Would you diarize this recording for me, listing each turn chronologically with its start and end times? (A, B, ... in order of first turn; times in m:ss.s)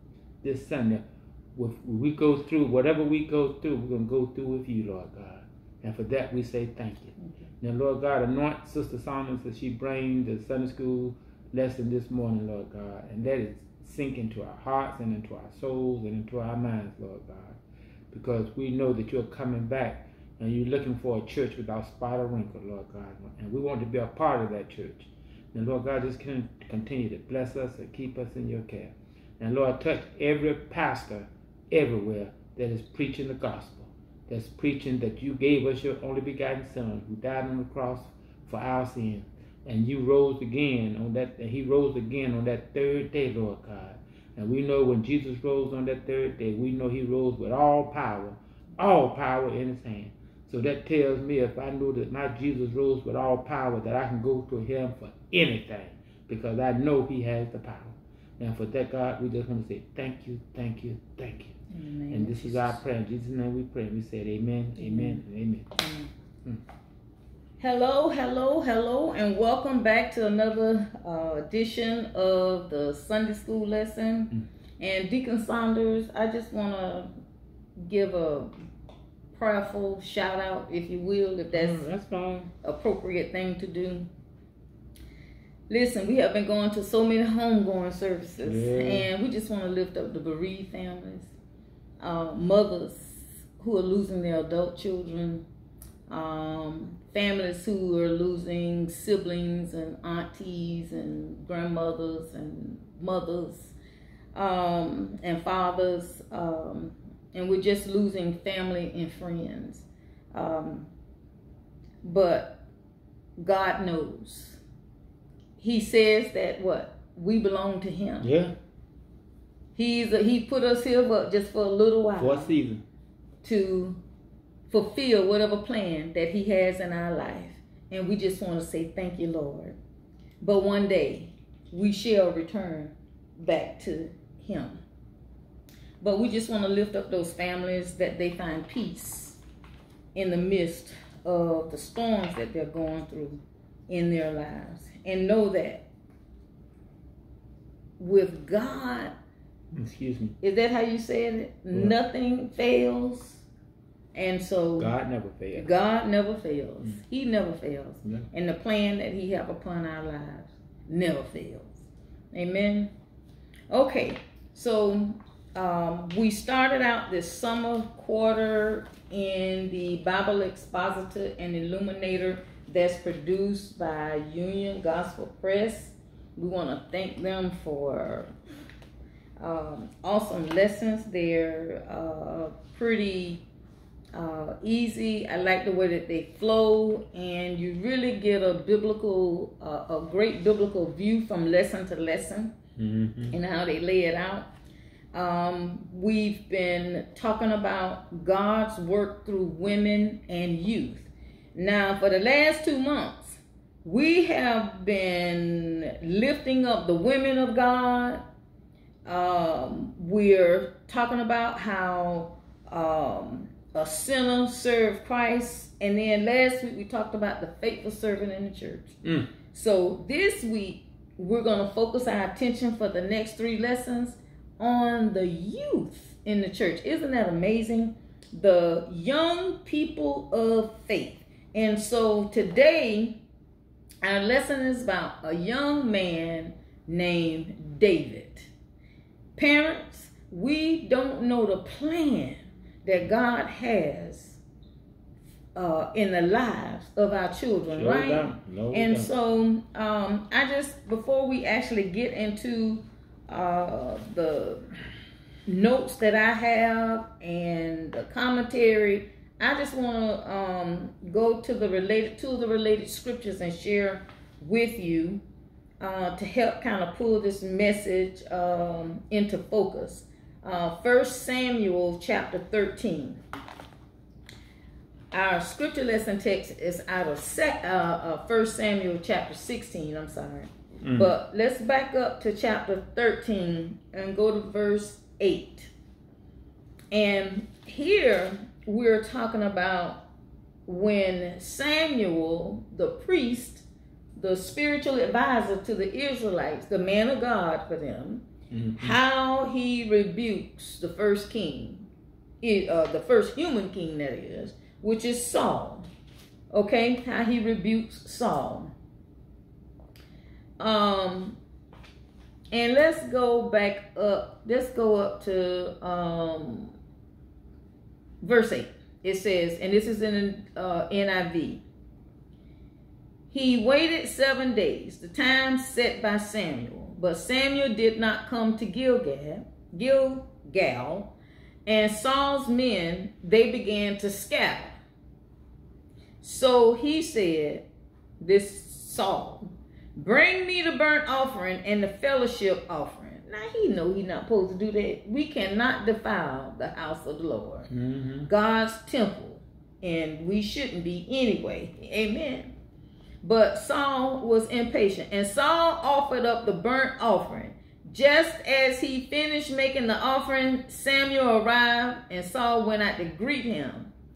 0:00.4-0:01.0 A
0:01.5-0:17.6 A
0:18.1-1:01.6 A
1:01.7-1:02.8 B
1:02.1-1:05.7 A
1:04.8-1:05.2 B
1:05.8-1:06.1 B
1:07.6-1:17.1 B
1:17.8-1:18.5 B
1:19.3-1:21.8 B
1:21.5-1:22.5 A
1:22.6-1:24.1 B
1:25.7-1:31.3 B
1:28.4-1:29.1 A
1:32.0-1:35.4 B
1:36.1-1:43.7 B
1:44.3-1:50.9 B
1:52.0-1:52.6 B
1:53.4-1:54.6 B
1:55.6-1:58.3 B
1:58.2-1:58.5 A
1:59.8-2:02.5 B
2:02.2-2:02.8 A
2:03.4-2:04.0 B
2:04.7-2:09.8 B
2:10.4-2:14.8 B
2:16.0-2:19.4 B
2:20.1-2:25.8 B
2:28.0-2:29.1 B
2:29.7-2:30.3 A
2:30.4-2:33.4 B
2:31.7-2:32.0 A
2:34.1-2:34.9 B
2:34.8-2:35.7 A
2:35.6-2:41.7 B
2:42.3-2:42.9 B
2:43.7-2:58.3 B
2:59.4-3:03.4 B
3:04.1-3:12.5 B
3:12.8-3:13.4 A
3:13.3-3:14.5 B
3:15.1-3:28.2 B
3:29.0-3:39.0 B
3:39.0-3:39.3 A
3:39.5-3:53.2 B
3:54.0-3:58.5 B
3:59.4-4:04.4 B
4:05.5-4:14.6 B
4:07.7-4:09.1 A
4:15.5-4:25.2 B
4:25.8-4:33.2 B
4:35.1-4:45.7 B
4:40.8-4:41.1 A
4:46.9-4:50.0 B
4:50.6-4:53.6 B
4:54.2-4:58.2 B
4:58.5-4:59.0 A
4:58.8-5:01.9 B
5:02.4-5:05.8 B
5:06.5-5:08.7 B
5:10.6-5:11.4 B
5:12.5-5:16.7 B
5:18.2-5:21.6 B
5:23.3-5:31.1 B
5:31.6-5:34.7 B
5:36.2-5:37.6 B
5:38.2-5:47.7 B
5:47.7-5:48.3 A
5:48.3-5:52.5 B
5:53.2-6:03.9 B